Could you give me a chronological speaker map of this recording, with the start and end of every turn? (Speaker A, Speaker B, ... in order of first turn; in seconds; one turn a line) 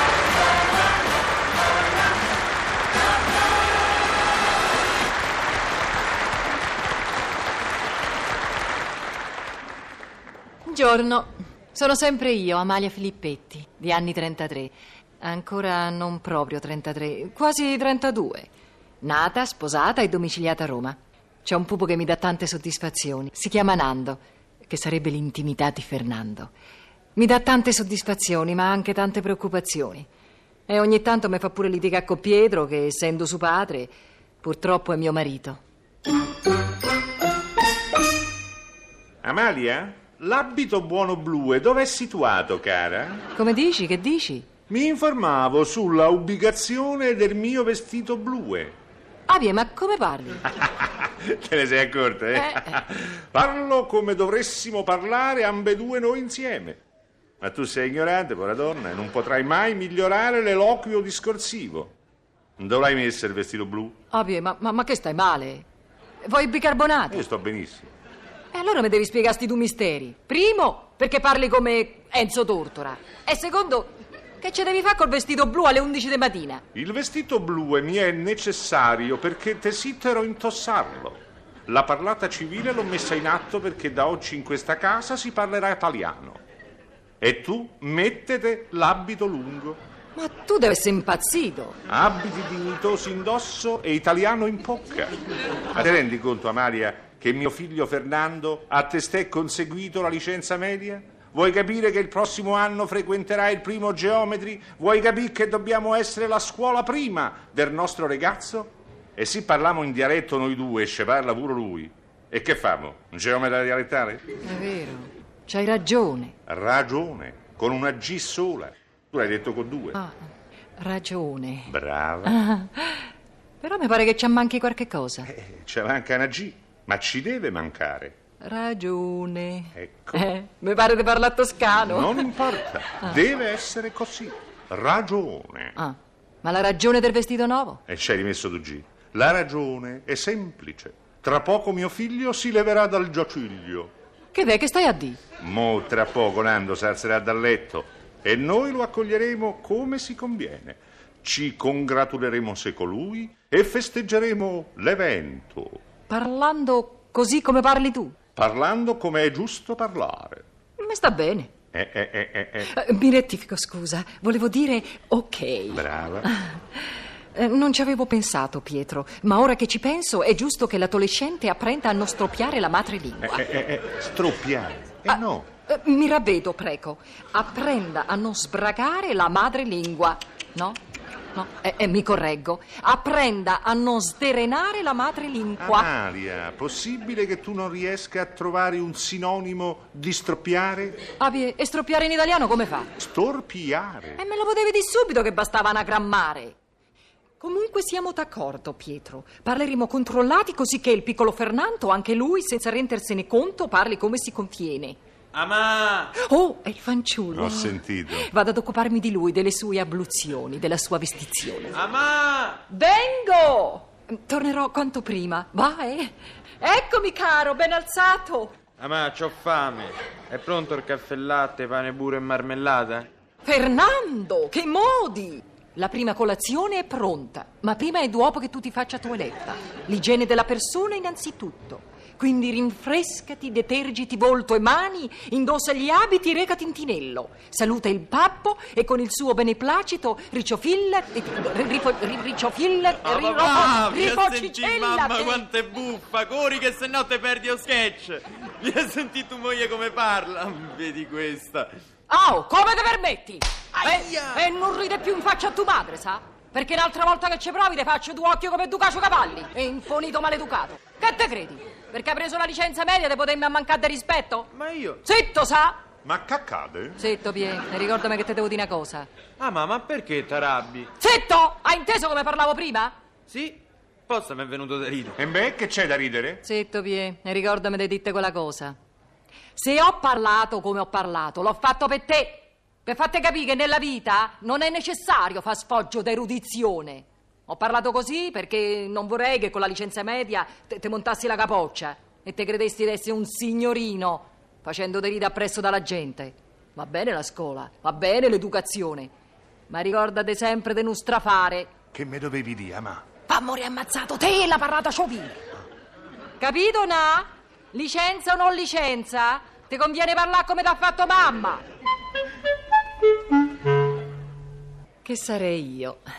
Speaker A: 10.7-18.5
Speaker A: 19.0-26.5
Speaker A: 27.2-30.1
Speaker A: 30.7-35.6
Speaker B: 39.2-43.3
Speaker A: 43.4-44.5
Speaker B: 44.7-48.8
Speaker A: 49.3-50.4
Speaker B: 50.6-56.8
Speaker A: 52.3-52.8
Speaker B: 57.4-62.0
Speaker B: 62.6-64.0
Speaker A: 64.1-65.7
Speaker A: 66.2-67.3
Speaker B: 67.1-67.9
Speaker A: 68.5-76.6
Speaker B: 76.7-86.4
Speaker B: 87.2-89.8
Speaker A: 90.2-91.8
Speaker B: 91.9-95.2
Speaker B: 95.7-114.2
Speaker A: 114.4-116.4
Speaker B: 116.5-120.0
Speaker A: 119.9-121.7
Speaker B: 121.7-122.4
Speaker A: 122.2-125.3
Speaker B: 125.3-128.2
Speaker A: 128.4-132.3
Speaker B: 129.8-130.3
Speaker B: 131.8-135.8
Speaker A: 135.8-137.8
Speaker B: 137.9-143.9
Speaker A: 144.3-145.2
Speaker B: 145.4-155.8
Speaker A: 156.1-158.2
Speaker B: 158.4-160.4
Speaker A: 160.8-161.5
Speaker B: 161.7-162.8
Speaker A: 162.6-173.4
Speaker B: 165.7-166.3
Speaker B: 173.2-175.5
Speaker A: 175.1-180.8
Speaker A: 181.3-185.9
Speaker B: 185.6-191.0
Speaker A: 191.2-192.9
Speaker B: 193.0-194.2
Speaker A: 194.2-196.6
Speaker A: 197.4-205.0
Speaker C: 205.3-206.1
Speaker A: 206.2-211.8
Speaker B: 207.3-208.3
Speaker C: 211.7-212.6
Speaker A: 212.7-218.6
Speaker C: 218.8-223.1
Speaker A: 223.4-245.4
Speaker C: 243.0-251.7
Speaker A: 252.1-264.5
Speaker C: 253.8-254.4
Speaker C: 264.5-265.0
Speaker A: 265.0-265.8
Speaker B: 266.0-267.0
Speaker A: 267.0-269.1
Speaker C: 269.4-270.9
Speaker A: 271.0-272.9
Speaker C: 273.3-275.2
Speaker B: 275.2-276.4
Speaker A: 276.4-278.8
Speaker A: 279.6-299.1
Speaker A: 299.7-301.7
Speaker B: 301.9-303.0
Speaker A: 303.3-305.4
Speaker A: 306.4-311.6
Speaker A: 315.1-316.0